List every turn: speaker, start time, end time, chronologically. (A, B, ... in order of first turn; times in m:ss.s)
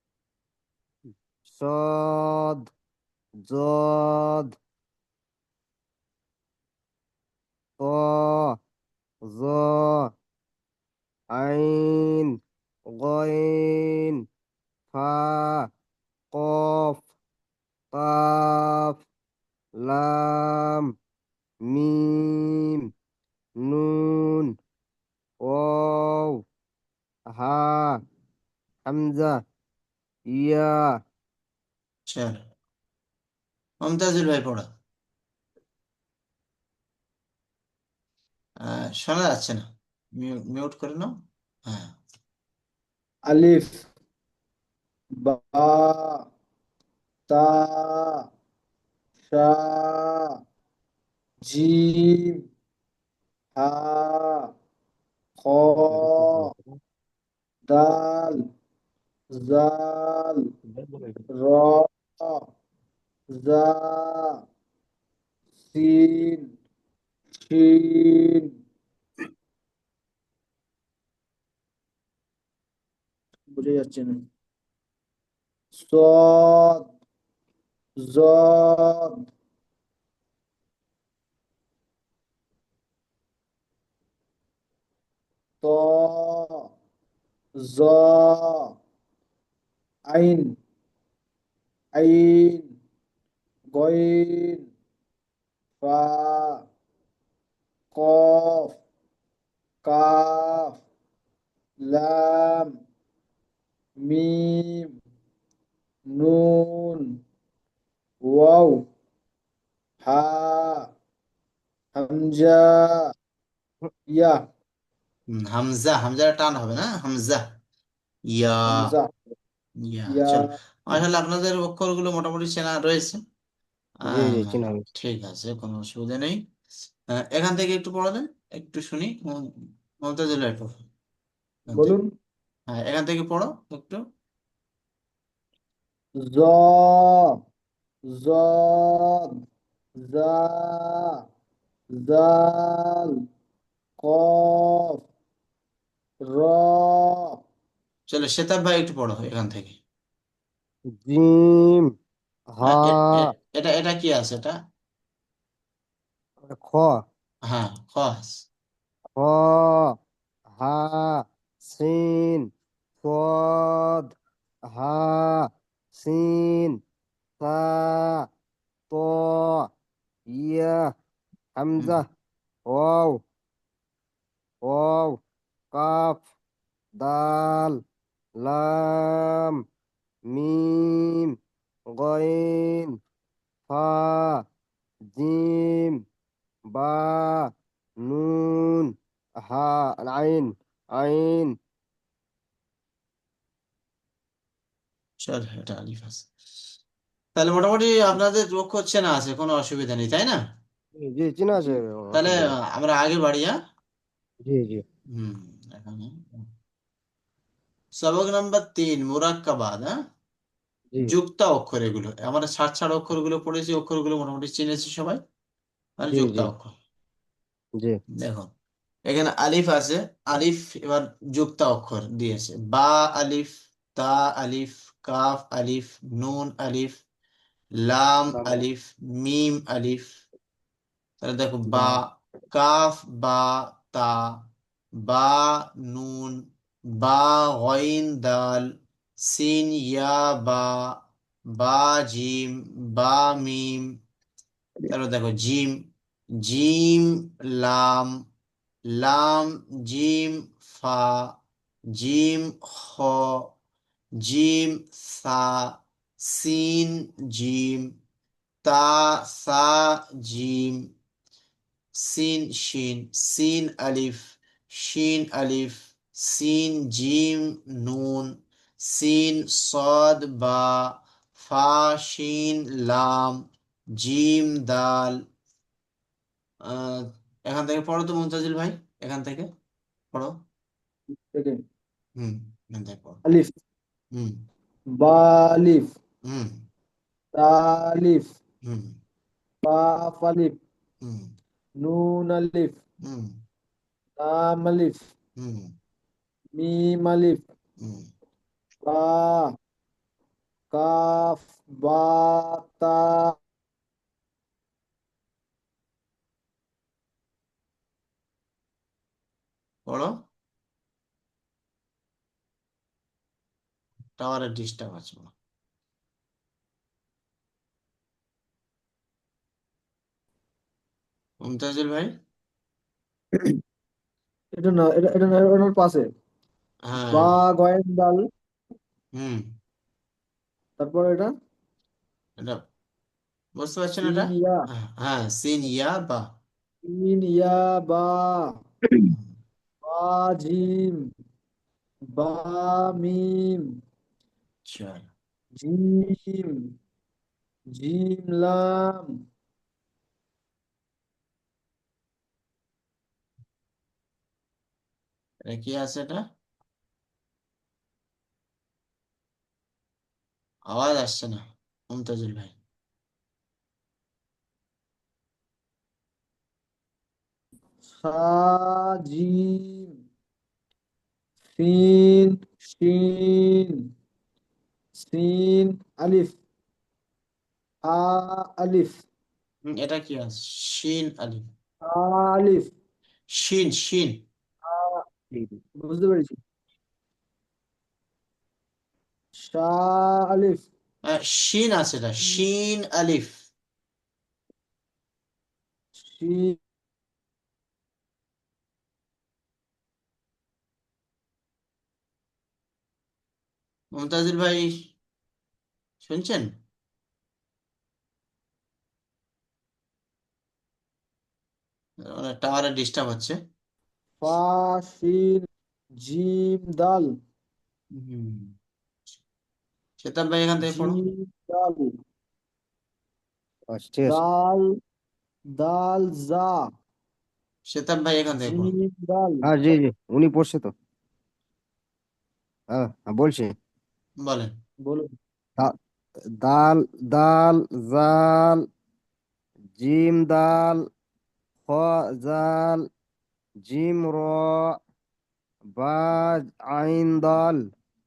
0:01.5-0:02.6 A
0:03.5-0:04.5 A
0:07.8-0:08.6 A
0:09.3-0:10.1 A
0:11.3-0:12.3 A
0:12.9-0:14.2 A
0:14.9-0:15.7 A
0:16.3-0:17.0 A
0:17.9-0:19.0 A
0:19.8-0:20.9 A
0:21.7-0:22.8 A
0:23.7-0:24.5 A
0:25.5-0:26.3 A
0:27.4-0:28.0 A
0:28.9-0:29.4 A
0:30.4-0:30.8 A
0:32.1-0:32.4 B
0:33.8-0:34.7 B
0:38.7-0:39.6 B
0:40.2-0:41.1 B
0:41.7-0:42.0 B
0:43.3-0:43.9 C
0:45.2-0:46.2 C
0:47.3-0:48.2 C
0:49.3-0:50.2 C
0:51.4-0:52.3 C
0:53.6-0:54.5 C
0:55.4-0:56.5 C
0:57.7-0:58.4 C
0:59.3-1:00.4 C
1:01.4-1:02.4 C
1:03.4-1:04.4 C
1:05.7-1:06.5 C
1:07.4-1:08.4 C
1:13.5-1:14.2 C
1:15.7-1:16.9 C
1:18.0-1:19.1 C
1:25.6-1:26.7 C
1:27.6-1:28.8 C
1:30.1-1:30.6 C
1:32.0-1:32.7 C
1:33.7-1:34.7 C
1:35.8-1:36.7 C
1:37.9-1:38.8 C
1:39.8-1:40.8 C
1:41.8-1:42.7 C
1:44.0-1:44.9 C
1:46.2-1:47.0 C
1:48.2-1:48.8 C
1:50.0-1:50.8 C
1:52.0-1:52.9 C
1:54.1-1:54.4 C
1:55.3-1:57.4 B
1:58.3-1:58.7 B
1:58.7-1:59.1 C
1:59.9-2:03.2 B
2:00.1-2:00.5 C
2:04.1-2:04.8 A
2:04.1-2:06.4 B
2:07.1-2:09.4 B
2:10.0-2:10.8 B
2:11.7-2:11.9 B
2:11.7-2:12.1 C
2:12.7-2:14.0 B
2:16.3-2:17.1 C
2:18.2-2:19.3 C
2:20.0-2:21.0 C
2:22.0-2:23.1 C
2:24.0-2:25.0 C
2:26.3-2:27.2 C
2:28.1-2:29.8 B
2:31.0-2:31.8 A
2:32.6-2:33.1 A
2:32.6-2:34.6 B
2:36.4-2:37.0 A
2:37.5-2:38.5 B
2:39.2-2:40.0 A
2:40.5-2:42.5 A
2:43.0-2:44.1 A
2:44.7-2:46.8 A
2:47.4-2:48.3 A
2:48.9-2:49.7 A
2:50.4-2:50.8 A
2:51.6-2:52.1 A
2:52.7-2:53.2 A
2:54.6-2:55.2 A
2:55.7-2:56.3 A
2:57.0-2:57.8 A
2:58.4-2:59.6 A
3:00.3-3:01.3 A
3:02.0-3:02.9 A
3:03.7-3:04.4 A
3:05.1-3:06.0 A
3:06.8-3:07.5 A
3:08.1-3:08.9 A
3:09.5-3:11.5 A
3:15.2-3:16.3 B
3:17.4-3:20.4 B
3:21.0-3:22.4 A
3:21.6-3:23.5 B
3:24.5-3:24.8 A
3:25.2-3:26.5 B
3:28.0-3:30.0 B
3:31.0-3:35.2 B
3:36.0-3:36.7 B
3:36.1-3:36.5 A
3:38.2-3:38.5 B
3:39.1-3:47.0 B
3:47.8-3:50.2 B
3:48.3-3:48.6 A
3:51.2-3:52.0 B
3:51.7-3:52.0 A
3:52.5-3:54.2 B
3:55.1-3:56.3 B
3:57.0-3:58.6 B
3:59.2-4:00.9 B
4:01.6-4:03.8 B
4:04.9-4:05.7 B
4:06.4-4:08.1 B
4:08.9-4:11.4 B
4:12.0-4:13.4 B
4:14.2-4:17.9 B
4:18.6-4:20.8 B
4:22.0-4:33.4 B
4:34.0-4:35.2 B
4:36.7-4:39.5 B
4:41.2-4:41.6 C
4:42.2-4:43.2 B
4:43.2-4:43.5 C
4:45.0-4:45.9 C
4:46.3-4:46.6 B
4:47.4-4:48.3 C
4:48.7-4:49.0 B
4:49.6-4:50.6 C
4:51.0-4:51.3 B
4:51.8-4:52.8 C
4:53.0-4:53.4 B
4:54.2-4:55.1 C
4:55.4-4:55.7 B
4:56.6-4:57.4 C
4:57.8-4:58.1 B
4:58.8-4:59.4 C
5:00.7-5:03.3 C
5:09.9-5:10.1 B
5:14.2-5:15.3 B
5:21.4-5:22.1 B
5:24.6-5:26.1 C
5:26.9-5:27.3 B
5:27.1-5:28.2 C
5:29.2-5:29.4 B
5:30.8-5:31.3 C
5:33.6-5:36.3 B
5:34.0-5:34.6 C
5:36.9-5:38.5 C
5:39.1-5:39.4 B
5:39.8-5:40.9 C
5:42.2-5:43.6 C
5:44.7-5:45.1 B
5:45.6-5:46.5 C
5:47.8-5:49.1 C
5:55.5-5:56.2 B
6:00.7-6:02.6 B
6:07.9-6:09.9 C
6:11.5-6:13.8 C
6:15.0-6:16.4 C
6:17.9-6:19.0 C
6:19.7-6:21.5 B
6:21.9-6:22.7 C
6:23.3-6:24.2 B
6:24.7-6:25.0 C
6:25.8-6:26.3 C
6:29.4-6:30.6 C
6:31.0-6:33.4 B
6:36.0-6:36.6 C
6:44.0-6:44.7 B
6:46.0-6:46.5 B
6:52.1-6:53.4 B
6:54.2-6:55.4 C
6:56.0-6:57.1 C
6:58.0-6:58.5 B
7:00.0-7:01.0 B
7:00.6-7:01.9 C
7:03.7-7:04.2 A
7:04.0-7:04.6 C
7:05.6-7:06.6 C
7:07.7-7:08.7 B
7:08.4-7:09.4 C
7:09.4-7:10.7 A
7:12.7-7:13.5 A
7:14.2-7:14.5 B
7:16.4-7:18.6 A
7:19.8-7:20.8 A
7:21.7-7:22.8 A
7:23.7-7:24.7 A
7:25.8-7:27.6 A